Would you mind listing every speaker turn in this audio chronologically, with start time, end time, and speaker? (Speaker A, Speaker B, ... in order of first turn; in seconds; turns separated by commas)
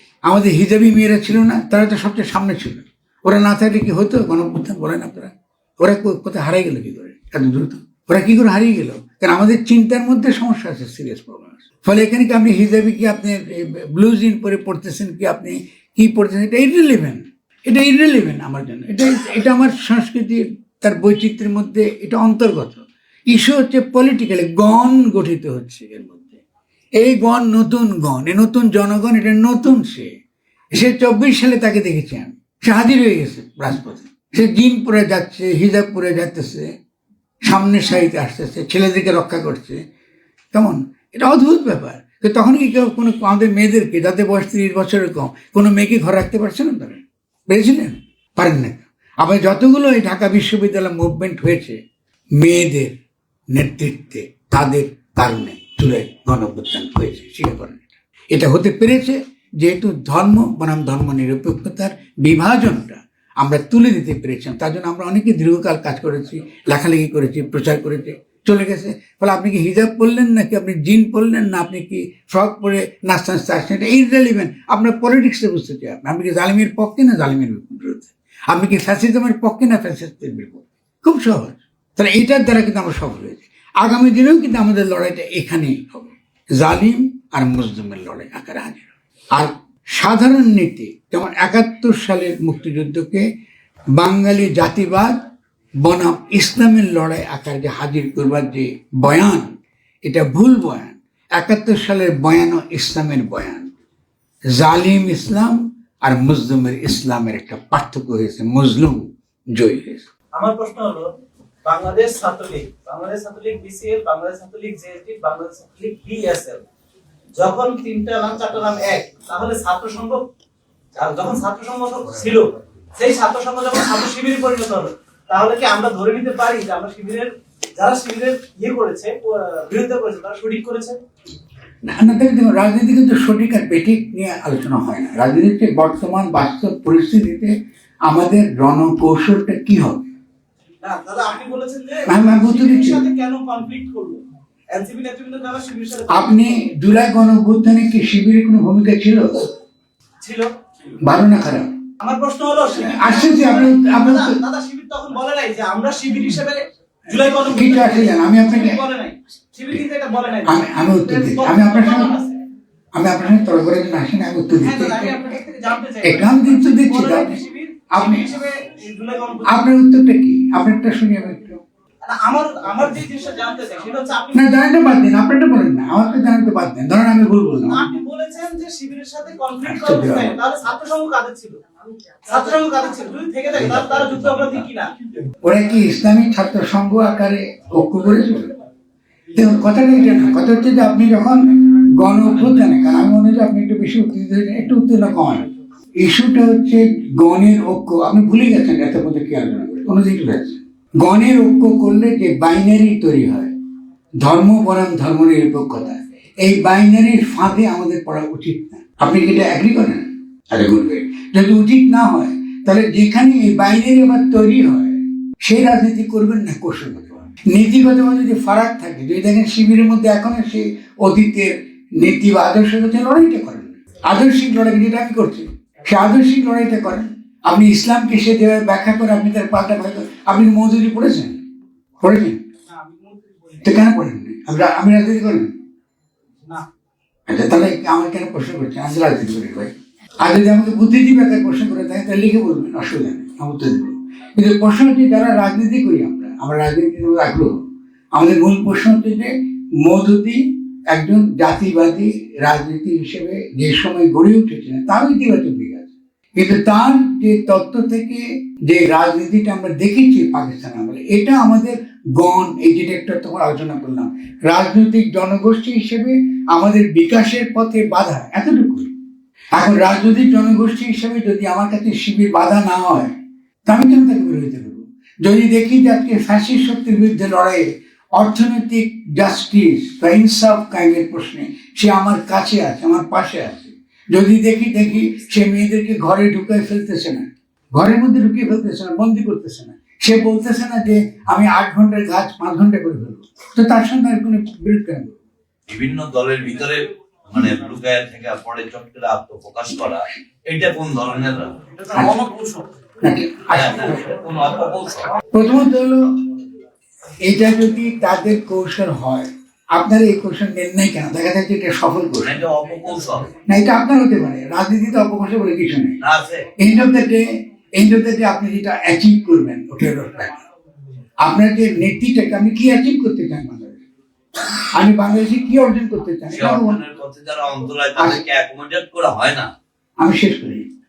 Speaker A: 0.3-26.4, Speaker A: 27.0-30.1, Speaker A: 30.7-36.7, Speaker A: 37.4-39.8, Speaker A: 40.5-51.8, Speaker A: 52.4-52.9, Speaker A: 53.5-93.2, Speaker A: 94.0-95.2, Speaker A: 95.8-103.7, Speaker A: 104.5-110.1, Speaker B: 110.3-111.1, Speaker B: 111.6-116.6, Speaker B: 117.4-120.2, Speaker B: 121.0-131.0, Speaker A: 131.8-137.5, Speaker A: 138.1-140.1, Speaker B: 140.8-144.2, Speaker A: 142.1-143.0, Speaker B: 144.7-146.4, Speaker A: 146.1-149.4, Speaker B: 150.2-150.5, Speaker A: 151.0-151.7, Speaker B: 152.0-162.4, Speaker A: 152.8-154.4, Speaker A: 157.4-158.8, Speaker A: 160.4-162.1, Speaker A: 162.9-165.2, Speaker B: 164.6-169.6, Speaker A: 166.0-167.4, Speaker A: 167.9-168.3, Speaker A: 169.4-171.6, Speaker B: 172.0-174.5, Speaker A: 174.3-177.9, Speaker B: 177.6-181.6, Speaker A: 179.6-180.3, Speaker B: 182.2-184.9, Speaker C: 183.5-184.7, Speaker A: 185.4-188.5, Speaker A: 189.3-195.4, Speaker A: 196.0-203.5, Speaker A: 204.2-231.4, Speaker A: 232.0-232.4, Speaker B: 232.7-233.8, Speaker A: 233.6-235.5, Speaker A: 237.3-247.6, Speaker A: 248.1-268.9, Speaker A: 269.6-273.1, Speaker A: 273.7-295.2, Speaker C: 295.7-301.6, Speaker B: 301.8-302.6, Speaker A: 301.9-302.3, Speaker A: 303.0-304.1, Speaker C: 303.5-305.1, Speaker A: 305.3-306.2, Speaker A: 307.2-312.4, Speaker C: 312.2-313.3, Speaker A: 313.4-316.0, Speaker C: 316.0-316.4, Speaker A: 316.6-320.3, Speaker A: 321.2-323.8, Speaker A: 324.7-326.8, Speaker C: 326.3-329.5, Speaker A: 330.0-330.7